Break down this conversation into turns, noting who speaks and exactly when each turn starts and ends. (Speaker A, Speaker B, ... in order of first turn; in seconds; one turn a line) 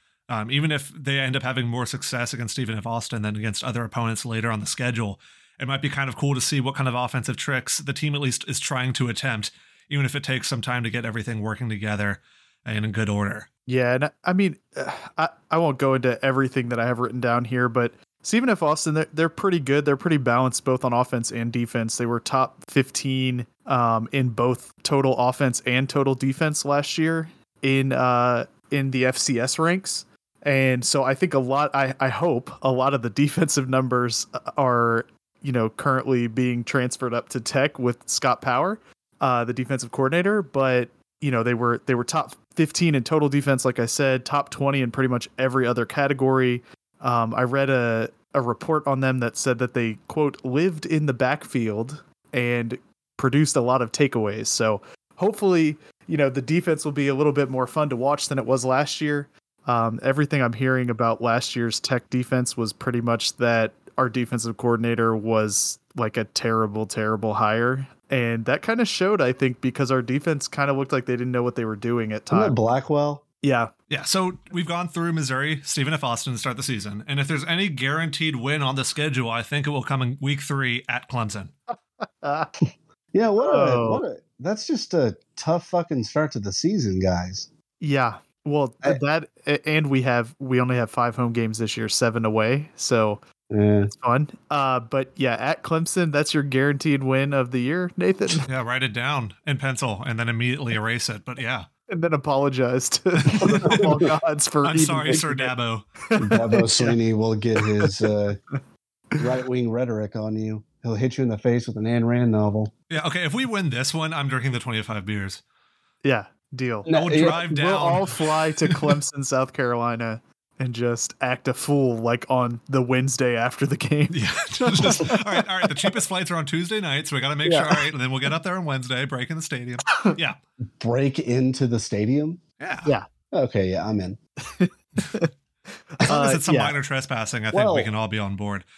Speaker A: 0.3-13.5
Speaker B: 13.7-72.5
Speaker C: 72.3-73.2
Speaker B: 73.4-73.7
Speaker A: 73.9-81.5
Speaker B: 82.0-82.5
Speaker C: 83.1-87.5
Speaker B: 83.4-84.0
Speaker B: 87.8-93.2
Speaker C: 93.5-93.9
Speaker B: 93.9-98.5
Speaker A: 98.5-101.7
Speaker B: 101.9-105.5
Speaker A: 103.2-103.9
Speaker C: 103.4-103.9
Speaker A: 104.6-105.8
Speaker B: 106.0-107.0
Speaker C: 106.2-108.4
Speaker B: 107.6-107.9
Speaker C: 109.2-112.7
Speaker A: 112.9-115.4
Speaker B: 116.0-125.9
Speaker C: 116.8-117.5
Speaker A: 116.9-119.0
Speaker A: 124.1-130.4
Speaker B: 127.4-127.8
Speaker C: 130.8-132.4
Speaker A: 132.6-132.9
Speaker C: 133.3-134.2
Speaker B: 134.4-135.3
Speaker B: 135.9-136.7
Speaker A: 136.1-138.6
Speaker C: 137.5-137.9